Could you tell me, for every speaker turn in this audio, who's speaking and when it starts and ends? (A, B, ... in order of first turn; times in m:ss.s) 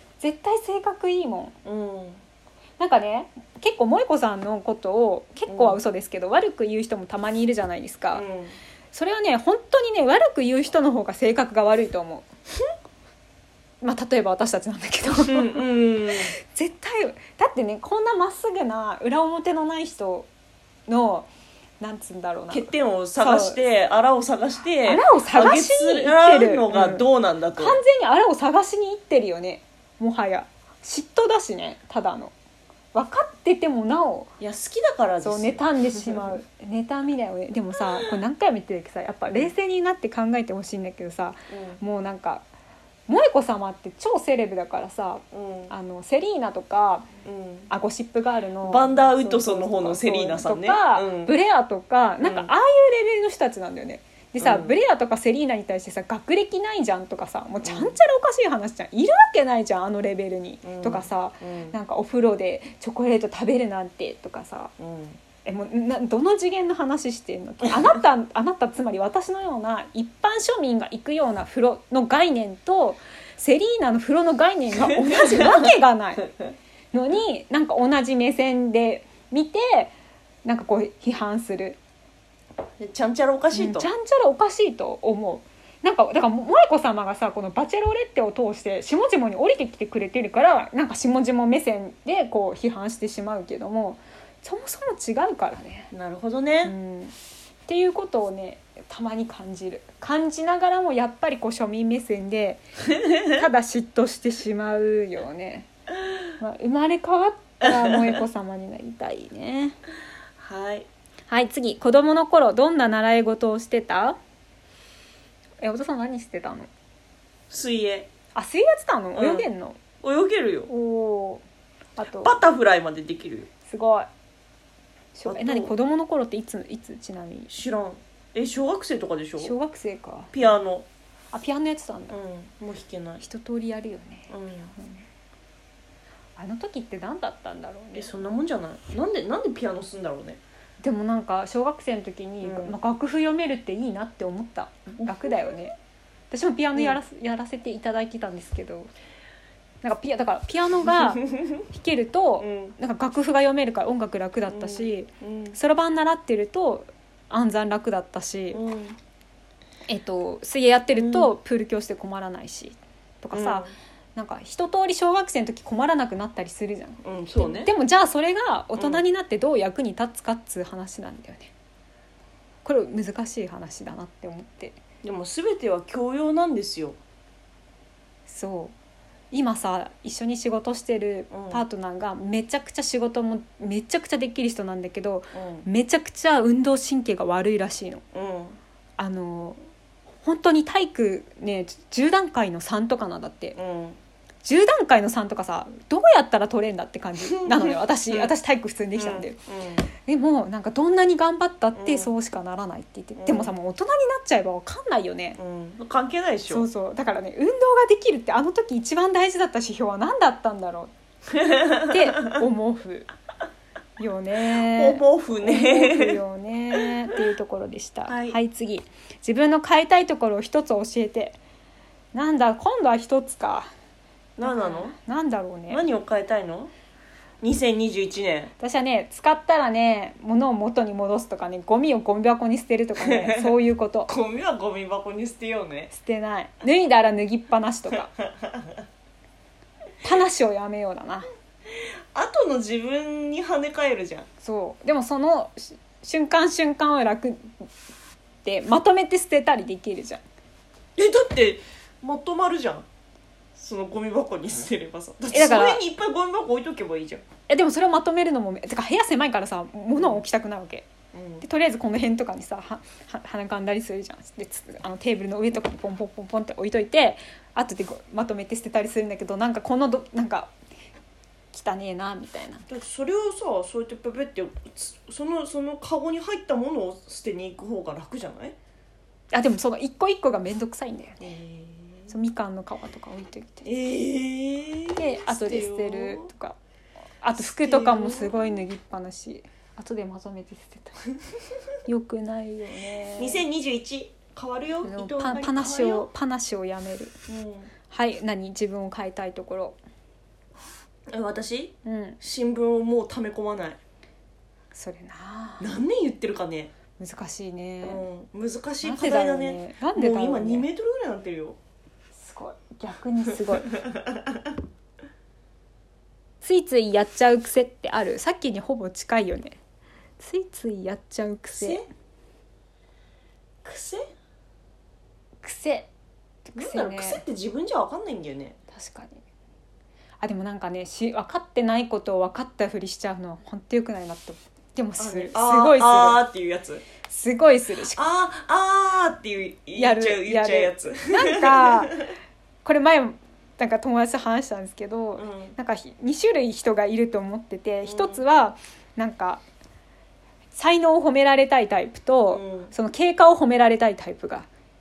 0:00.2-0:01.5 A
0:01.6-0:02.2 B
0:02.8-0:08.2 A
0:05.5-0:05.8 B
0:08.1-0:08.6 B
0:08.9-0:12.2 A
0:13.8-0:15.6 A
0:15.1-0:16.3 B
0:16.4-0:20.3 A
0:20.9-0:21.3 A
0:21.8-0:23.6 A
0:22.5-0:27.8 B
0:24.8-0:27.0 A
0:27.6-0:32.3 A
0:32.9-0:34.3 A
0:34.4-0:36.4 B
0:35.2-0:42.4 A
0:41.5-0:41.8 B
0:43.1-0:47.1 A
0:45.3-0:45.7 B
0:47.2-0:47.7 B
0:47.7-1:04.7 A
0:48.6-0:51.3 B
0:52.2-0:52.5 B
0:54.4-0:54.8 B
0:57.6-0:57.9 B
1:00.6-1:01.8 B
1:04.8-1:05.2 B
1:05.4-1:16.3 A
1:14.8-1:15.7 B
1:16.9-1:21.8 A
1:22.8-1:23.9 B
1:23.5-1:35.9 A
1:35.9-1:36.7 B
1:36.6-1:37.1 A
1:37.7-1:42.6 A
1:43.2-1:45.7 A
1:46.4-1:49.8 A
1:47.6-1:48.2 B
1:50.4-1:50.9 B
1:51.3-1:54.2 A
1:55.6-1:56.7 A
1:57.5-1:58.1 B
1:58.3-1:59.8 A
1:59.2-1:59.4 B
2:00.0-2:00.7 B
2:00.7-2:01.4 A
2:02.0-2:02.3 A
2:02.1-2:03.5 B
2:03.6-2:04.1 A
2:05.1-2:07.5 A
2:05.2-2:05.7 B
2:07.5-2:09.5 B
2:09.4-2:10.5 A
2:10.3-2:10.9 B
2:11.3-2:12.2 A
2:12.1-2:13.2 B
2:13.2-2:15.0 A
2:14.3-2:14.7 B
2:16.4-2:18.2 A
2:17.9-2:20.4 B
2:20.8-2:25.7 A
2:22.4-2:22.8 B
2:26.3-2:28.9 A
2:26.7-2:27.0 B
2:29.8-2:38.6 A
2:32.4-2:32.8 B
2:34.5-2:35.6 B
2:38.5-2:39.0 B
2:39.9-2:51.5 A
2:40.9-2:41.3 B
2:43.3-2:43.7 B
2:47.0-2:47.7 B
2:48.8-2:49.0 B
2:52.6-2:54.8 A
2:55.0-2:57.0 B
2:58.3-2:58.7 A
2:59.3-3:08.0 A
3:01.3-3:01.6 B
3:05.3-3:05.6 B
3:08.1-3:08.6 B
3:09.0-3:09.6 A
3:10.2-3:13.6 A
3:13.6-3:14.0 B
3:14.4-3:19.4 A
3:17.2-3:18.3 B
3:19.0-3:19.9 B
3:20.0-3:25.4 A
3:21.8-3:22.1 B
3:23.2-3:23.5 B
3:25.4-3:26.7 B
3:26.5-3:30.9 A
3:31.4-3:31.9 B
3:31.8-3:33.1 A
3:34.0-3:41.4 A
3:34.4-3:36.2 B
3:38.1-3:38.4 B
3:42.1-3:43.7 A
3:44.4-3:45.0 B
3:44.4-3:45.8 A
3:45.7-3:46.7 B
3:47.4-3:48.5 B
3:48.6-3:54.1 A
3:53.0-3:55.9 B
3:55.9-3:58.1 A
3:58.2-3:58.7 B
4:00.0-4:01.3 A
4:01.8-4:04.3 B
4:04.4-4:07.7 A
4:08.4-4:10.2 A
4:11.0-4:12.8 B
4:13.6-4:17.2 B
4:15.3-4:15.8 A
4:17.5-4:20.9 A
4:20.0-4:20.2 B
4:21.1-4:21.4 B
4:21.4-4:30.5 A
4:31.5-4:32.6 A
4:32.7-4:38.6 B
4:39.3-4:41.2 A
4:41.2-4:42.1 B
4:42.1-4:43.7 A
4:43.6-4:46.3 B
4:45.0-4:46.6 A
4:47.2-4:51.1 A
4:47.4-4:48.5 B
4:51.8-4:53.4 A
4:53.2-4:56.1 B
4:54.8-4:57.1 A
4:57.3-4:57.7 B
4:57.9-4:59.8 A
5:01.1-5:03.8 B
5:01.8-5:02.2 A
5:04.7-5:05.7 A
5:05.6-5:06.7 B
5:07.0-5:08.0 A
5:07.8-5:11.6 B
5:08.8-5:10.7 A
5:12.2-5:13.8 A
5:16.4-5:19.6 A
5:20.2-5:21.8 A
5:21.5-5:21.9 B
5:23.6-5:24.0 B
5:25.4-5:25.9 A
5:26.5-5:27.2 A
5:26.6-5:28.6 B
5:28.7-5:29.2 A
5:30.2-5:36.2 A
5:35.0-5:36.8 B
5:37.0-5:38.0 A
5:37.8-5:42.1 B
5:39.8-5:42.0 A
5:42.6-5:49.4 A
5:45.2-5:45.5 B
5:47.8-5:48.2 B
5:50.5-5:54.5 A
5:52.3-5:52.7 B